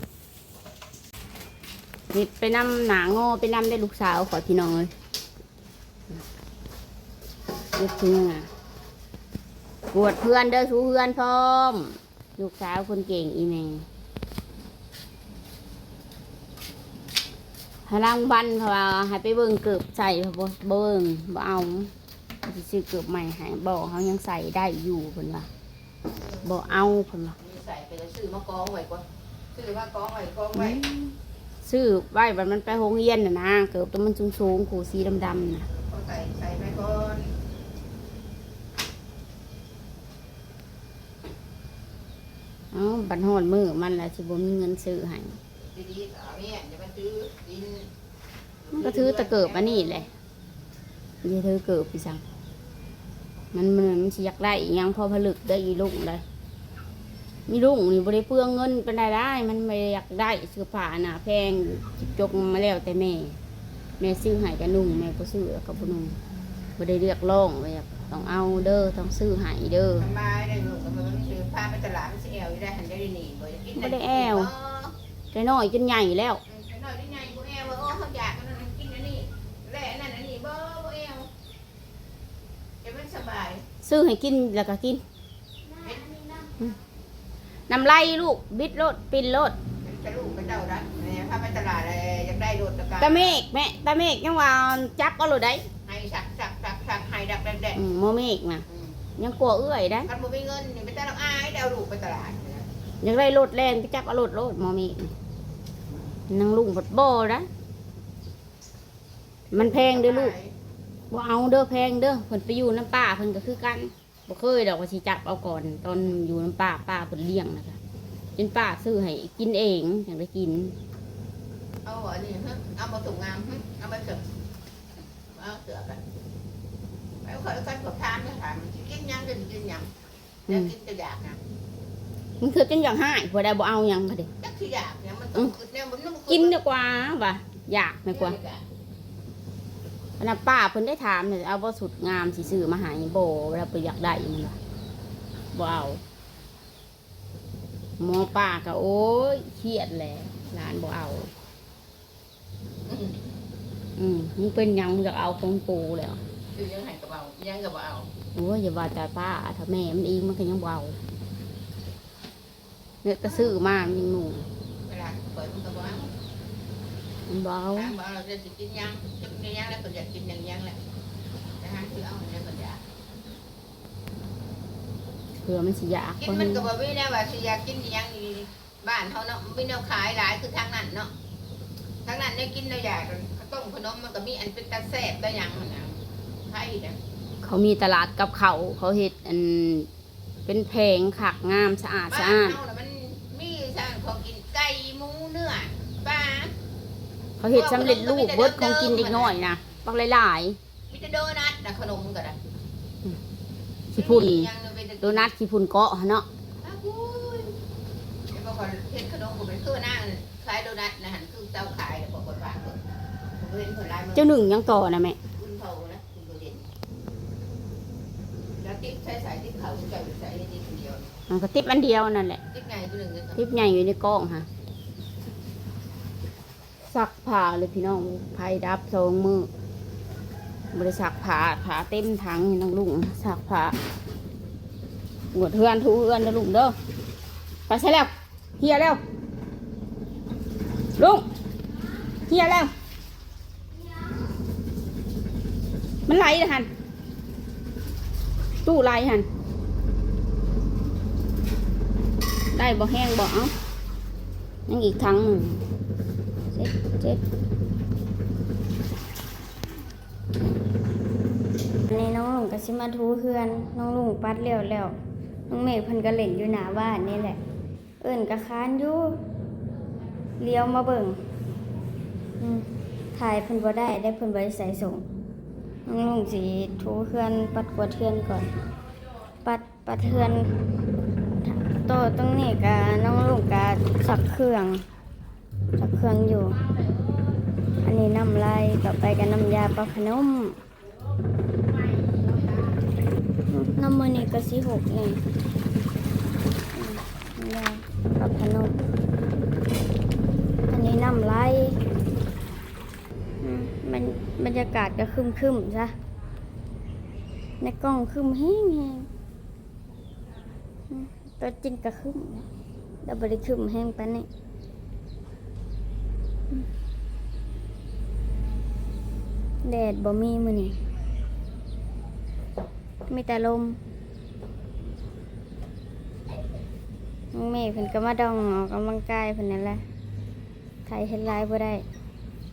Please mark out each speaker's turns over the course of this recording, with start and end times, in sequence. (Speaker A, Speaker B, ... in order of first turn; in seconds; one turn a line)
Speaker A: 2.1-4.9
Speaker A: 7.7-8.5
Speaker A: 9.9-13.8
Speaker A: 17.9-21.9
Speaker A: 22.4-25.5
Speaker B: 26.2-30.8
Speaker A: 26.4-27.4
Speaker A: 30.6-35.6
Speaker B: 35.7-37.3
Speaker A: 42.7-45.4
Speaker B: 45.6-47.9
Speaker B: 48.6-50.1
Speaker A: 48.7-50.1
Speaker A: 51.2-52.2
Speaker A: 53.5-56.2
Speaker A: 57.5-63.4
Speaker A: 64.0-66.2
Speaker A: 66.8-70.0
Speaker B: 70.0-74.9
Speaker A: 73.8-74.5
Speaker A: 75.3-76.4
Speaker B: 76.5-81.3
Speaker B: 82.8-83.6
Speaker A: 83.8-85.0
Speaker B: 85.8-86.2
Speaker A: 87.7-89.5
Speaker B: 89.8-93.4
Speaker A: 93.0-95.7
Speaker B: 95.8-97.8
Speaker A: 97.7-98.6
Speaker B: 98.7-99.0
Speaker A: 99.2-100.1
Speaker B: 100.0-102.7
Speaker A: 103.0-105.1
Speaker A: 106.3-107.5
Speaker A: 109.5-110.3
Speaker B: 109.5-110.5
Speaker A: 111.1-117.8
Speaker A: 118.4-120.7
Speaker B: 121.8-124.2
Speaker B: 125.3-126.0
Speaker B: 127.2-129.9
Speaker B: 130.5-131.4
Speaker A: 132.4-134.3
Speaker B: 134.4-136.6
Speaker A: 136.3-138.4
Speaker B: 138.1-138.6
Speaker A: 140.2-144.6
Speaker A: 145.5-146.0
Speaker A: 148.0-151.3
Speaker B: 152.8-153.2
Speaker A: 154.0-156.2
Speaker B: 156.5-158.1
Speaker A: 158.3-161.0
Speaker A: 163.0-164.4
Speaker B: 163.2-163.6
Speaker B: 164.8-166.1
Speaker A: 167.3-168.0
Speaker B: 167.7-170.8
Speaker B: 171.6-172.8
Speaker A: 175.4-176.7
Speaker B: 176.2-181.1
Speaker B: 182.0-187.0
Speaker A: 187.4-189.9
Speaker A: 190.4-192.6
Speaker B: 192.1-196.5
Speaker A: 197.4-200.6
Speaker B: 197.5-199.4
Speaker B: 200.9-202.4
Speaker A: 203.9-204.5
Speaker B: 203.9-205.3
Speaker A: 205.0-206.3
Speaker B: 206.6-207.6
Speaker B: 208.3-212.8
Speaker B: 213.3-214.3
Speaker A: 214.1-215.2
Speaker B: 215.3-216.7
Speaker B: 218.6-221.1
Speaker A: 221.3-222.4
Speaker B: 222.5-223.4
Speaker A: 223.3-224.5
Speaker A: 226.8-229.5
Speaker A: 230.7-233.8
Speaker A: 235.3-236.8
Speaker A: 237.7-239.0
Speaker A: 241.0-241.2
Speaker A: 242.3-242.7
Speaker A: 246.1-246.7
Speaker A: 248.6-249.2
Speaker A: 252.5-253.5
Speaker A: 254.7-255.6
Speaker C: 256.5-257.2
Speaker C: 261.9-264.9
Speaker C: 265.5-267.4
Speaker C: 268.0-269.2
Speaker C: 270.4-271.2
Speaker C: 272.4-275.0
Speaker C: 275.9-278.5
Speaker C: 279.4-280.5
Speaker C: 281.4-284.8
Speaker C: 285.8-286.6
Speaker C: 287.8-290.6
Speaker A: 291.7-292.7
Speaker C: 293.5-295.2
Speaker C: 296.7-298.8
Speaker C: 300.7-301.8
Speaker C: 303.4-305.9
Speaker C: 307.6-309.1
Speaker C: 310.9-312.5
Speaker C: 313.0-314.3
Speaker C: 319.6-320.8
Speaker C: 323.1-323.8
Speaker C: 327.3-329.8
Speaker C: 330.9-331.8